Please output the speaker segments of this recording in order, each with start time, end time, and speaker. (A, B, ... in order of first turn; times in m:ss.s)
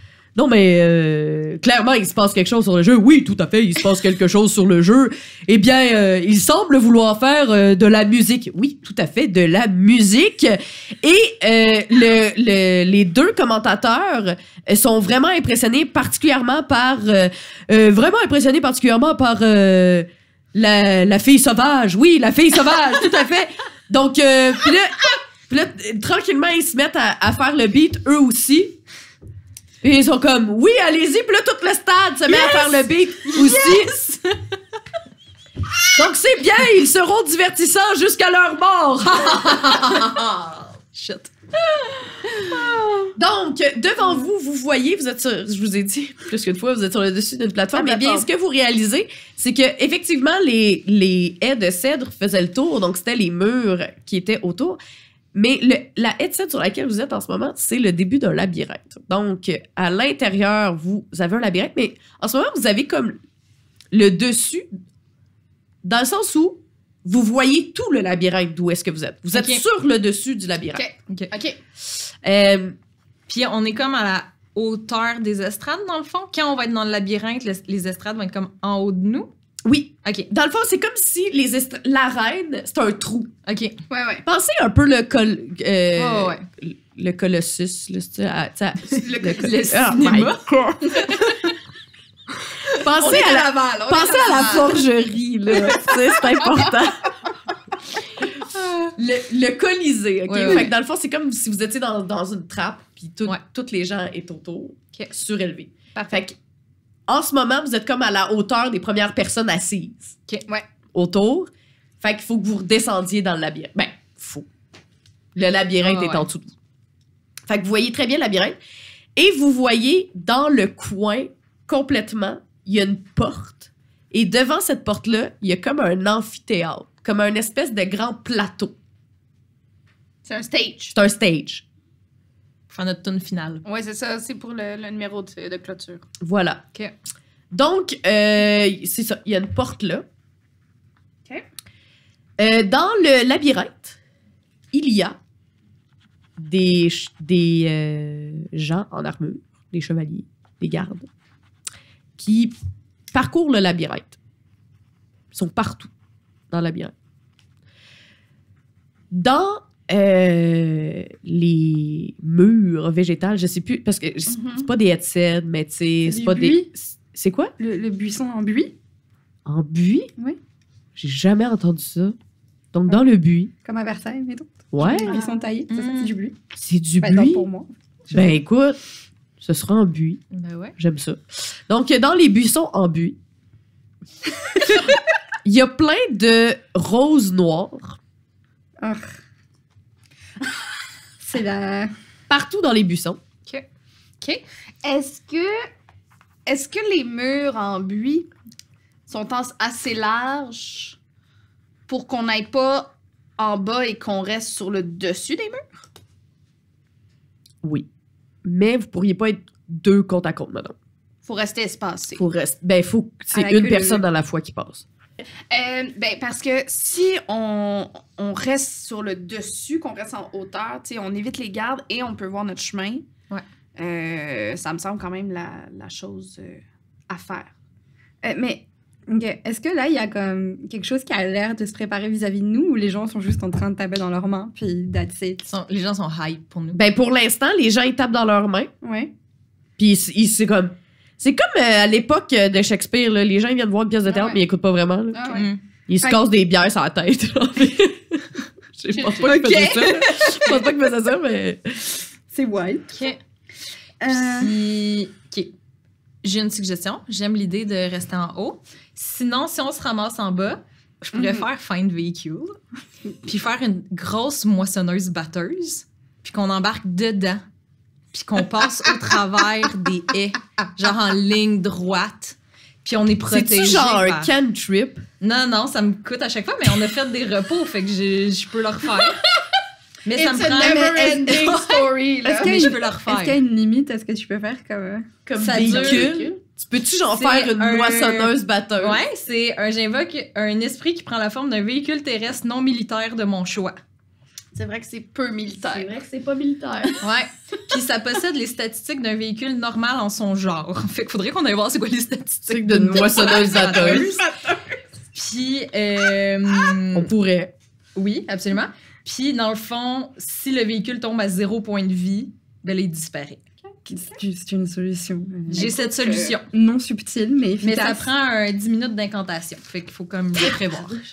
0:00.4-0:28.8 A
0:29.8-0:34.0 A
0:32.4-0:32.7 B
0:33.3-0:34.2 B
0:36.0-0:40.7 A
0:39.6-0:40.2 B
0:40.8-0:41.3 B
0:42.0-0:42.7 B
0:43.2-0:54.8 A
0:47.7-0:48.3 C
0:55.3-1:03.2 A
1:03.9-1:04.7 A
1:05.8-1:10.8 A
1:09.3-1:09.6 B
1:10.7-1:11.6 C
1:11.9-1:12.8 A
1:13.3-1:19.3 B
1:19.6-1:23.3 A
1:20.0-1:20.3 B
1:23.4-1:23.8 B
1:23.9-1:24.2 C
1:24.2-1:31.5 A
1:26.0-1:26.5 B
1:28.9-1:30.4 B
1:29.0-1:29.8 C
1:32.8-1:37.1 A
1:32.8-1:34.9 C
1:35.5-1:36.8 C
1:39.0-1:46.4 A
1:40.3-1:40.7 B
1:46.0-1:46.2 C
1:47.1-1:50.2 A
1:50.9-1:54.5 A
1:55.4-1:56.5 A
1:55.8-1:56.3 B
1:57.5-1:58.6 A
1:59.2-2:08.8 A
2:10.2-2:11.0 C
2:10.9-2:11.6 A
2:12.7-2:13.6 B
2:13.7-2:16.1 C
2:16.2-2:16.6 A
2:17.5-2:20.0 A
2:22.4-2:24.0 A
2:24.7-2:25.2 A
2:26.4-2:31.1 A
2:32.2-2:32.5 A
2:33.1-2:34.2 A
2:35.3-2:35.9 A
2:36.5-2:36.9 A
2:39.1-2:47.5 A
2:44.3-2:44.7 C
2:46.0-2:46.7 D
2:47.6-2:48.7 D
2:49.5-2:50.1 A
2:51.0-2:52.2 A
2:52.7-2:53.5 A
2:53.6-2:56.4 D
2:54.7-2:55.1 A
2:55.7-2:56.2 B
2:56.6-2:57.5 A
2:57.0-2:58.4 D
2:58.1-2:58.8 A
2:59.4-3:00.2 A
3:00.3-3:00.8 B
3:00.8-3:03.2 A
3:04.6-3:04.8 D
3:04.7-3:08.0 A
3:08.8-3:09.1 D
3:11.2-3:11.9 D
3:12.3-3:13.2 A
3:14.8-3:15.7 C
3:16.5-3:18.3 C
3:19.1-3:21.0 C
3:21.9-3:25.6 C
3:28.4-3:30.8 A
3:31.2-3:32.2 C
3:32.2-3:34.8 A
3:33.3-3:34.0 D
3:35.5-3:43.0 C
3:43.8-3:47.5 C
3:48.2-3:55.4 D
3:55.4-3:56.8 B
3:56.7-3:58.7 A
3:58.8-3:59.1 D
3:59.8-4:11.9 A
4:04.1-4:04.4 C
4:05.1-4:05.5 C
4:05.3-4:05.6 B
4:08.9-4:10.0 C
4:09.2-4:10.3 D
4:12.3-4:12.9 D
4:12.9-4:13.2 B
4:14.0-4:14.6 D
4:14.1-4:15.5 B
4:16.2-4:22.6 B
4:21.2-4:21.5 C
4:23.2-4:27.4 B
4:28.1-4:34.3 B
4:33.3-4:35.0 A
4:35.2-4:39.2 B
4:40.0-4:41.6 B
4:40.1-4:42.8 C
4:40.6-4:41.7 D
4:42.2-4:46.1 D
4:42.3-4:43.4 B
4:45.3-4:49.0 A
4:45.6-4:46.1 B
4:45.6-4:46.4 C
4:47.2-4:48.3 D
4:47.3-4:47.8 B
4:48.8-4:53.8 B
4:54.5-4:55.9 C
4:55.7-4:57.0 A
4:57.0-5:04.2 B
5:02.5-5:04.2 A
5:03.3-5:04.6 C
5:05.1-5:07.1 B
5:06.9-5:07.5 A
5:08.0-5:13.4 B
5:13.9-5:15.7 D
5:15.5-5:16.4 C
5:15.5-5:16.5 B
5:16.5-5:18.0 D
5:17.6-5:21.0 B